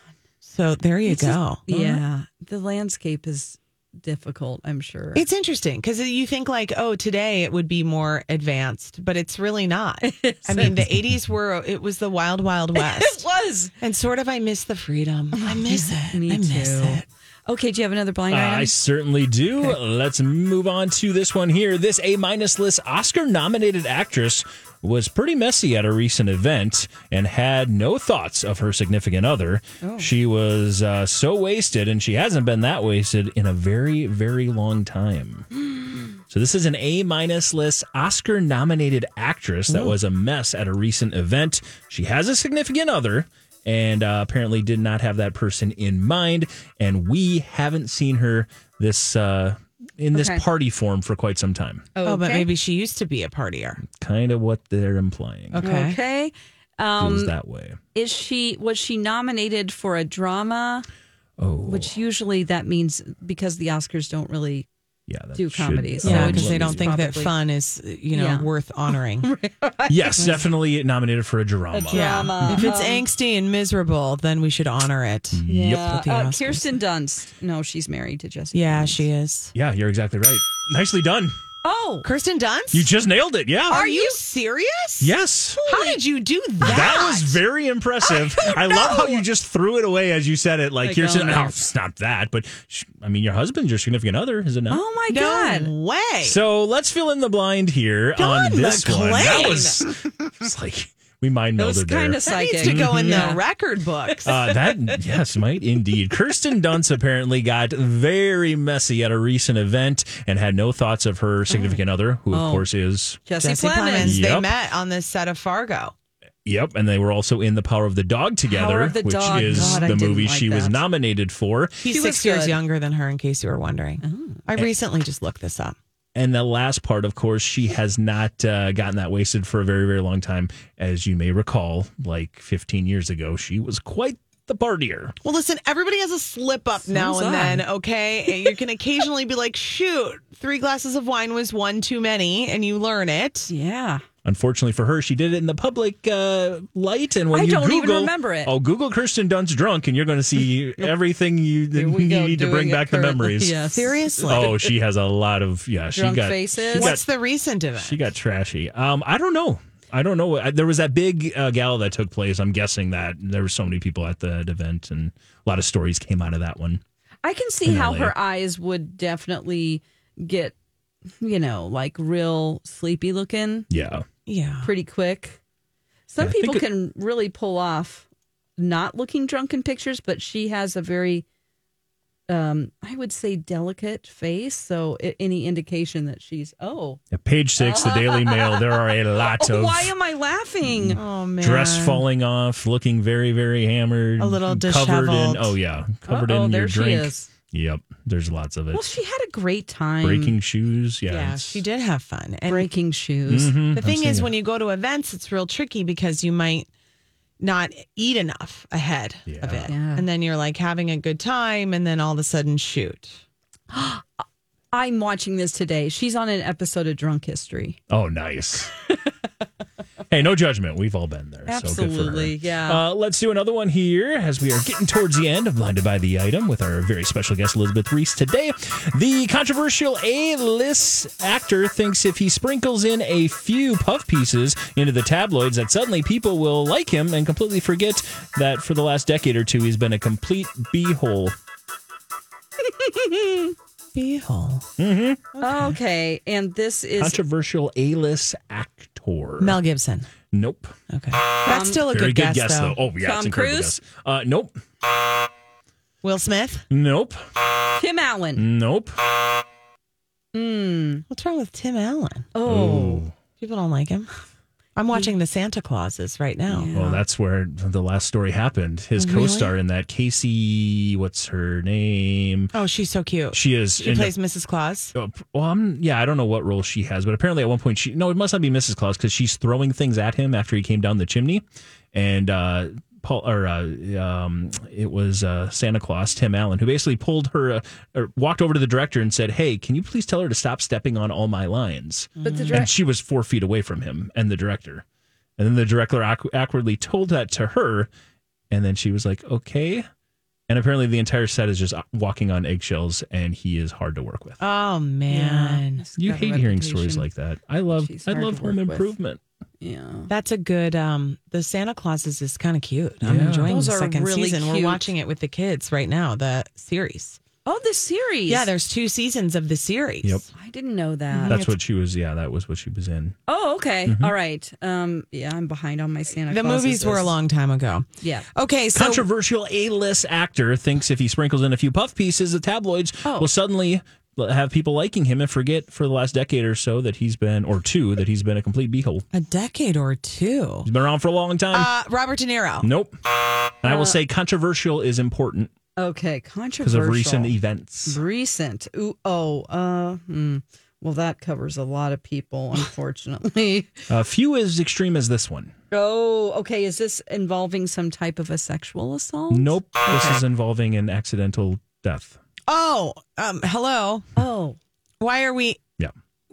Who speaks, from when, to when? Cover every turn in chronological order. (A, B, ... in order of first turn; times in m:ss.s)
0:00.4-0:02.0 A
0:01.1-0:05.2 B
0:05.1-0:13.3 A
0:10.0-0:10.7 B
0:12.8-0:13.7 B
0:13.8-0:17.1 A
0:15.4-0:18.7 B
0:18.3-0:35.5 C
0:36.3-0:51.9 C
0:39.7-0:40.0 A
0:50.1-0:50.4 B
0:52.0-0:52.5 B
0:52.0-0:53.8 A
0:53.9-0:55.6 C
0:55.5-0:56.0 A
0:55.6-0:57.3 B
0:57.0-0:57.8 C
0:58.0-1:00.9 B
1:01.4-1:01.9 C
1:01.7-1:04.7 B
1:05.1-1:06.9 C
1:05.3-1:07.3 B
1:06.0-1:09.3 A
1:08.1-1:08.5 B
1:09.2-1:10.4 B
1:09.9-1:12.7 C
1:11.7-1:13.0 B
1:11.9-1:16.7 A
1:15.4-1:16.0 C
1:15.5-1:19.0 B
1:18.5-1:19.5 A
1:19.5-1:21.4 C
1:21.6-1:22.1 B
1:22.0-1:22.9 A
1:22.7-1:23.8 C
1:23.7-1:25.1 A
1:23.7-1:24.2 B
1:25.0-1:25.6 C
1:25.6-1:26.0 B
1:25.6-1:27.4 A
1:26.6-1:27.0 B
1:26.6-1:34.8 C
1:28.1-1:29.2 B
1:30.8-1:31.6 B
1:34.7-1:35.7 B
1:35.1-1:36.4 A
1:36.2-1:43.3 C
1:38.2-1:39.9 A
1:41.6-1:43.4 B
1:42.3-1:44.6 A
1:44.2-1:53.2 C
1:51.5-1:51.8 B
1:52.3-1:52.7 B
1:53.3-1:54.2 B
1:53.4-1:56.0 A
1:54.0-1:54.5 C
1:56.5-2:01.8 C
1:58.5-2:00.8 B
1:59.4-2:00.0 A
2:01.8-2:05.8 A
2:01.8-2:02.6 B
2:04.0-2:04.4 B
2:06.2-2:15.2 C
2:15.2-2:23.5 A
2:16.8-2:17.6 B
2:23.5-2:24.0 B
2:24.2-2:33.6 C
2:27.3-2:28.5 B
2:31.7-2:34.5 B
2:33.7-2:34.6 A
2:34.3-2:37.0 C
2:35.9-2:37.0 B
2:36.7-2:38.0 A
2:37.8-2:46.8 C
2:47.2-2:50.5 B
2:47.6-2:48.1 C
2:51.2-2:53.7 B
2:53.7-2:54.0 C
2:54.3-2:54.7 A
2:54.6-2:55.4 B
2:56.1-2:58.1 B
2:56.2-2:56.6 C
2:58.6-3:01.2 B
3:02.3-3:07.0 B
3:07.1-3:09.9 C
3:07.6-3:11.0 B
3:10.6-3:18.8 C
3:11.0-3:12.0 A
3:14.2-3:15.6 A
3:16.1-3:17.3 B
3:18.7-3:20.4 B
3:20.0-3:21.6 C
3:21.1-3:22.7 A
3:22.5-3:23.6 B
3:23.3-3:24.3 C
3:23.7-3:26.7 A
3:27.4-3:33.2 A
3:29.3-3:29.7 C
3:29.7-3:30.0 B
3:33.7-3:34.0 B
3:34.7-3:37.8 B
3:37.9-3:38.7 C
3:40.1-4:01.3 C
3:41.5-3:42.8 B
4:02.6-4:03.6 B
4:03.9-4:04.7 A
4:04.8-4:05.2 C
4:05.3-4:05.8 A
4:05.4-4:07.2 B
4:07.0-4:09.6 C
4:09.4-4:10.1 A
4:10.3-4:10.8 C
4:10.9-4:12.8 A
4:11.5-4:11.9 B
4:11.8-4:14.5 C
4:13.0-4:13.8 B
4:16.0-4:16.7 A
4:16.7-4:17.2 C
4:17.8-4:18.4 B
4:18.4-4:19.0 C
4:20.3-4:21.0 B
4:21.1-4:22.3 A
4:22.4-4:23.0 B
4:22.5-4:23.1 C
4:23.4-4:24.1 A
4:24.8-4:26.7 A
4:26.5-4:27.0 B
4:26.7-4:32.5 C
4:29.0-4:29.5 A
4:32.5-4:34.9 A
4:33.3-4:34.2 C
4:34.9-4:41.4 C
4:41.9-4:54.8 C
4:52.2-4:52.7 A
4:52.2-4:52.7 B
4:55.4-4:57.9 C
4:58.5-4:59.9 C
5:00.5-5:04.4 C
5:04.4-5:07.0 A
5:05.1-5:06.9 B
5:06.0-5:09.2 C
5:07.7-5:08.9 B
5:09.6-5:10.1 B
5:10.1-5:17.2 A
5:13.0-5:13.6 C
5:13.5-5:14.9 B
5:17.4-5:18.5 B
5:18.3-5:20.2 A
5:20.4-5:21.4 B
5:21.1-5:21.6 A
5:21.2-5:23.2 C
5:23.3-5:27.1 B
5:23.9-5:24.1 C
5:26.3-5:29.0 A
5:28.0-5:28.3 B
5:28.7-5:39.0 C
5:33.0-5:33.3 B
5:39.1-5:40.7 A
5:40.6-5:41.7 C
5:41.5-5:42.7 A
5:42.6-5:42.9 C
5:43.6-5:45.5 C
5:43.6-5:44.0 B
5:45.8-5:47.4 B
5:46.6-5:48.0 C
5:47.9-5:53.9 B
5:53.9-5:55.5 C
5:55.7-6:00.2 B
5:59.3-6:02.2 C
6:02.5-6:04.0 A
6:04.2-6:04.6 B
6:05.0-6:05.6 A